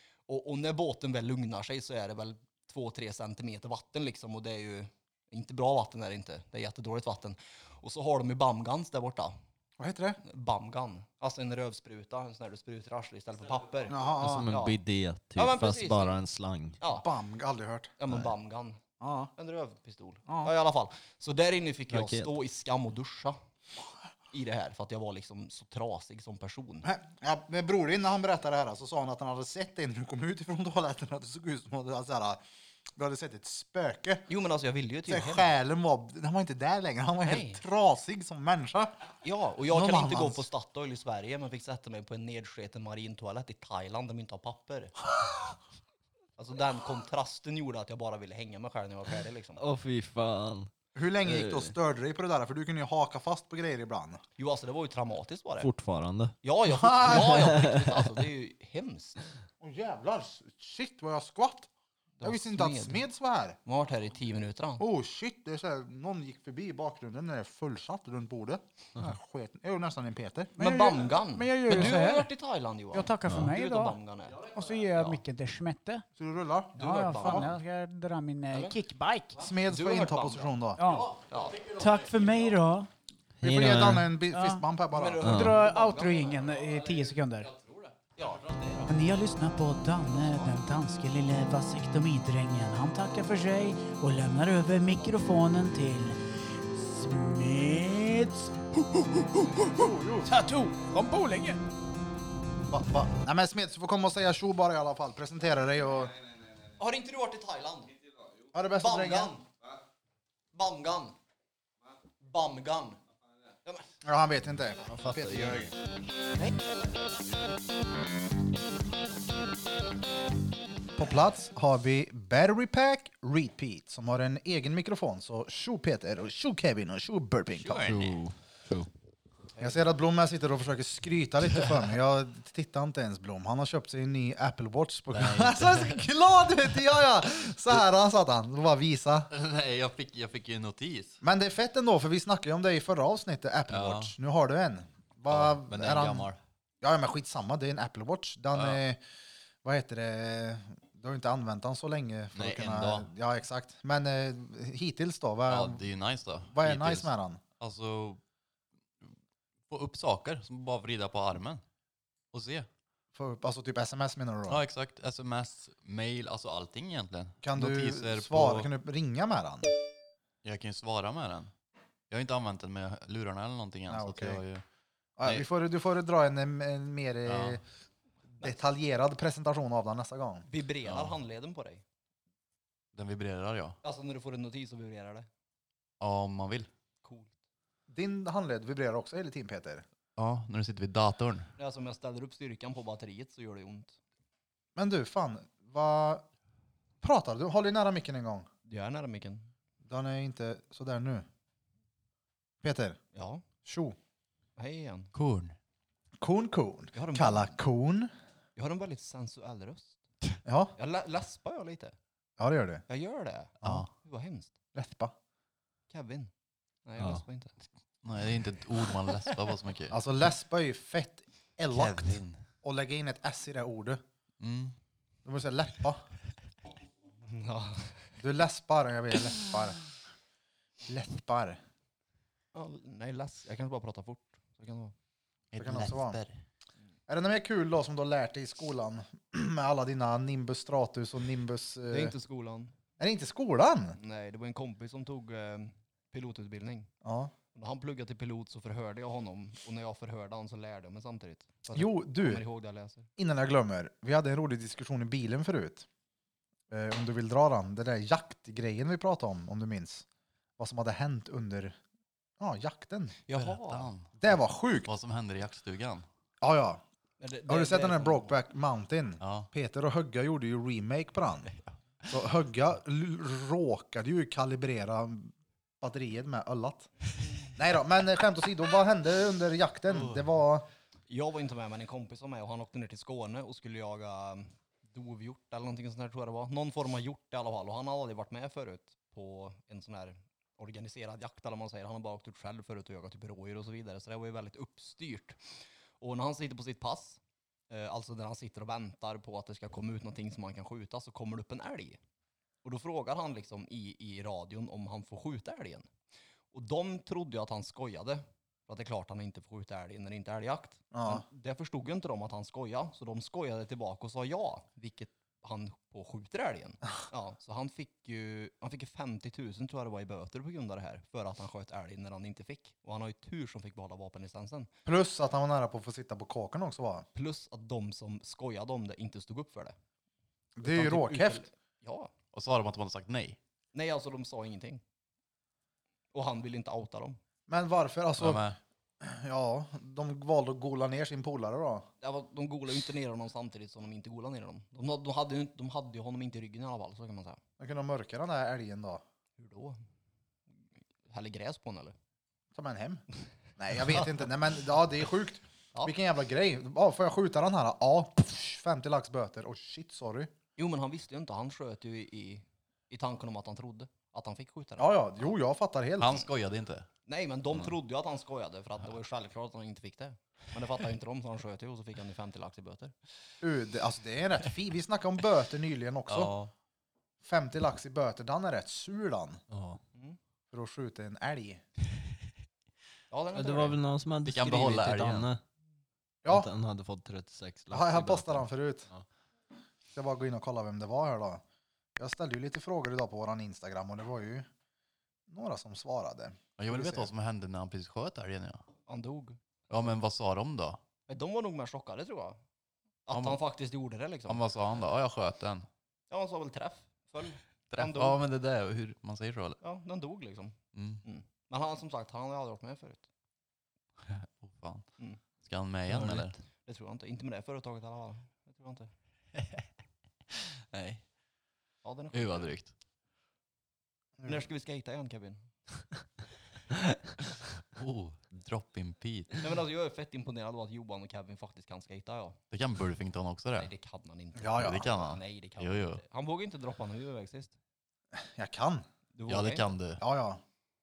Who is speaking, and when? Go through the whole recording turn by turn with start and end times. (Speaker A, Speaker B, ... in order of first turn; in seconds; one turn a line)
Speaker A: 0.3-9.3
Speaker B: 9.8-10.2
Speaker A: 10.2-14.8
Speaker B: 13.9-14.5
Speaker C: 14.2-16.8
Speaker A: 15.4-16.2
Speaker A: 16.8-17.1
Speaker B: 16.9-17.9
Speaker A: 18.0-18.8
Speaker B: 19.0-19.3
Speaker A: 19.4-23.4
Speaker B: 20.3-20.5
Speaker C: 21.9-22.3
Speaker A: 24.3-26.9
Speaker B: 26.8-32.4
Speaker B: 33.0-34.3
Speaker A: 34.3-35.5
Speaker B: 35.1-39.0
Speaker A: 37.2-37.6
Speaker A: 39.2-45.0
Speaker B: 39.7-40.5
Speaker A: 46.4-49.6
Speaker C: 49.6-50.7
Speaker B: 51.0-54.2
Speaker C: 51.2-51.7
Speaker A: 54.4-55.7
Speaker C: 55.6-56.4
Speaker A: 56.4-59.3
Speaker B: 56.7-57.4
Speaker C: 57.0-58.1
Speaker B: 59.6-61.7
Speaker A: 62.2-63.0
Speaker B: 62.2-63.6
Speaker A: 63.7-64.8
Speaker B: 64.8-70.6
Speaker D: 70.6-72.3
Speaker A: 70.6-75.2
Speaker D: 72.9-74.0
Speaker D: 74.5-76.0
Speaker B: 76.2-77.5
Speaker D: 76.8-79.4
Speaker A: 76.8-77.5
Speaker B: 79.4-80.8
Speaker A: 79.7-80.5
Speaker D: 80.8-82.9
Speaker A: 81.3-81.7
Speaker E: 81.7-82.3
Speaker C: 83.4-84.1
Speaker B: 83.4-85.2
Speaker D: 84.3-84.6
Speaker A: 84.9-86.7
Speaker C: 85.2-85.6
Speaker D: 85.2-87.5
Speaker E: 87.5-88.0
Speaker A: 88.1-88.9
Speaker D: 88.9-101.6
Speaker A: 90.2-90.5
Speaker B: 99.7-100.3
Speaker B: 102.7-106.2
Speaker A: 106.8-108.0
Speaker B: 108.5-109.3
Speaker A: 108.8-109.5
Speaker A: 110.5-111.2
Speaker A: 112.2-113.0
Speaker B: 114.0-115.7
Speaker C: 114.9-115.7
Speaker B: 121.0-127.9
Speaker E: 127.6-128.2
Speaker C: 127.8-128.9
Speaker A: 129.6-129.8
Speaker B: 129.6-139.3
Speaker E: 135.1-136.0
Speaker E: 139.3-141.2
Speaker B: 141.2-146.3
Speaker E: 143.7-144.2
Speaker E: 145.3-146.4
Speaker B: 146.8-149.0
Speaker E: 148.5-148.8
Speaker B: 149.6-155.8
Speaker E: 152.3-153.1
Speaker E: 155.5-157.1
Speaker B: 156.5-157.4
Speaker E: 157.6-158.2
Speaker E: 159.7-161.6
Speaker E: 162.3-162.7
Speaker B: 163.1-164.6
Speaker E: 164.5-168.7
Speaker B: 167.4-169.7
Speaker E: 170.4-171.5
Speaker E: 172.1-174.6
Speaker B: 173.9-174.4
Speaker B: 175.2-177.6
Speaker E: 177.3-177.6
Speaker B: 178.4-180.5
Speaker A: 180.5-181.8
Speaker E: 180.8-181.2
Speaker E: 182.9-183.8
Speaker A: 183.8-185.3
Speaker E: 186.0-186.7
Speaker A: 187.0-187.3
Speaker B: 187.9-189.8
Speaker E: 190.2-191.5
Speaker A: 191.6-194.0
Speaker B: 194.8-196.3
Speaker B: 197.0-198.5
Speaker A: 198.7-199.5
Speaker B: 199.9-201.3
Speaker B: 202.6-203.0
Speaker A: 203.1-203.4
Speaker B: 203.7-204.0
Speaker A: 204.6-205.1
Speaker E: 205.1-205.6
Speaker B: 206.2-208.1
Speaker A: 206.9-207.6
Speaker A: 208.6-210.0
Speaker B: 210.5-210.7
Speaker A: 210.8-212.0
Speaker B: 212.4-212.8
Speaker A: 212.9-214.5
Speaker E: 213.6-213.9
Speaker B: 214.8-215.2
Speaker A: 215.9-216.3
Speaker A: 216.9-217.5
Speaker E: 218.0-220.0
Speaker B: 219.9-224.0
Speaker E: 221.7-222.4
Speaker E: 224.4-224.8
Speaker B: 225.2-226.0
Speaker A: 227.3-228.0
Speaker B: 228.2-229.8
Speaker B: 230.9-231.6
Speaker A: 232.5-234.9
Speaker E: 235.5-236.4
Speaker B: 235.6-236.2
Speaker B: 237.1-242.2
Speaker A: 241.9-242.7
Speaker B: 243.0-244.0
Speaker A: 244.0-246.9
Speaker B: 247.0-247.3
Speaker A: 247.5-253.1
Speaker B: 251.7-252.4
Speaker B: 253.2-255.9
Speaker B: 256.7-260.1
Speaker B: 260.6-261.8
Speaker B: 262.4-263.2
Speaker A: 263.3-263.9
Speaker E: 263.3-264.1
Speaker B: 264.2-264.9
Speaker E: 264.8-266.1
Speaker B: 266.4-266.8
Speaker A: 267.2-268.4
Speaker B: 267.5-271.5
Speaker E: 269.2-269.5
Speaker B: 272.1-276.9
Speaker B: 277.6-280.7
Speaker A: 281.1-295.4
Speaker A: 296.0-302.0
Speaker A: 302.6-305.9
Speaker A: 306.5-324.7
Speaker B: 310.9-311.3
Speaker B: 324.9-327.1
Speaker A: 327.1-329.8
Speaker B: 330.6-331.4
Speaker A: 330.6-332.1
Speaker E: 332.3-333.4
Speaker A: 333.7-334.8
Speaker A: 336.1-337.2
Speaker B: 337.5-338.4
Speaker E: 338.2-338.6
Speaker B: 339.0-341.9
Speaker A: 342.0-347.4
Speaker B: 347.6-349.0
Speaker A: 349.4-349.8
Speaker A: 351.1-351.9
Speaker B: 352.6-353.0
Speaker B: 353.6-360.3
Speaker A: 360.6-365.0
Speaker B: 364.8-366.3
Speaker E: 366.0-366.9
Speaker A: 367.1-372.9
Speaker B: 373.4-376.3
Speaker E: 376.1-376.5
Speaker B: 377.2-379.4
Speaker C: 379.5-379.8
Speaker B: 380.5-381.6
Speaker A: 383.1-383.8
Speaker C: 383.3-385.4
Speaker E: 384.2-385.3
Speaker B: 386.2-386.5
Speaker C: 386.3-389.1
Speaker B: 387.7-388.9
Speaker B: 389.9-391.4
Speaker B: 392.0-394.5
Speaker B: 395.3-397.1
Speaker E: 396.6-398.6
Speaker A: 398.9-399.4
Speaker E: 399.7-400.8
Speaker A: 401.1-402.4
Speaker A: 403.1-404.4
Speaker E: 403.1-403.4
Speaker E: 404.3-405.7
Speaker A: 406.1-408.2
Speaker E: 407.7-409.6
Speaker A: 409.6-413.1
Speaker E: 410.7-411.0
Speaker E: 414.0-414.9
Speaker E: 415.4-416.4
Speaker A: 415.9-418.9
Speaker E: 419.4-419.6
Speaker E: 420.4-421.0
Speaker A: 421.8-422.5
Speaker E: 422.1-422.7
Speaker B: 424.2-424.5
Speaker A: 424.3-425.5
Speaker E: 427.8-429.5
Speaker A: 429.4-432.4
Speaker E: 432.5-433.7
Speaker A: 433.6-437.5
Speaker B: 434.4-434.9
Speaker E: 434.6-436.0
Speaker B: 438.2-438.9
Speaker A: 439.1-439.7
Speaker E: 439.3-440.0
Speaker B: 440.0-440.4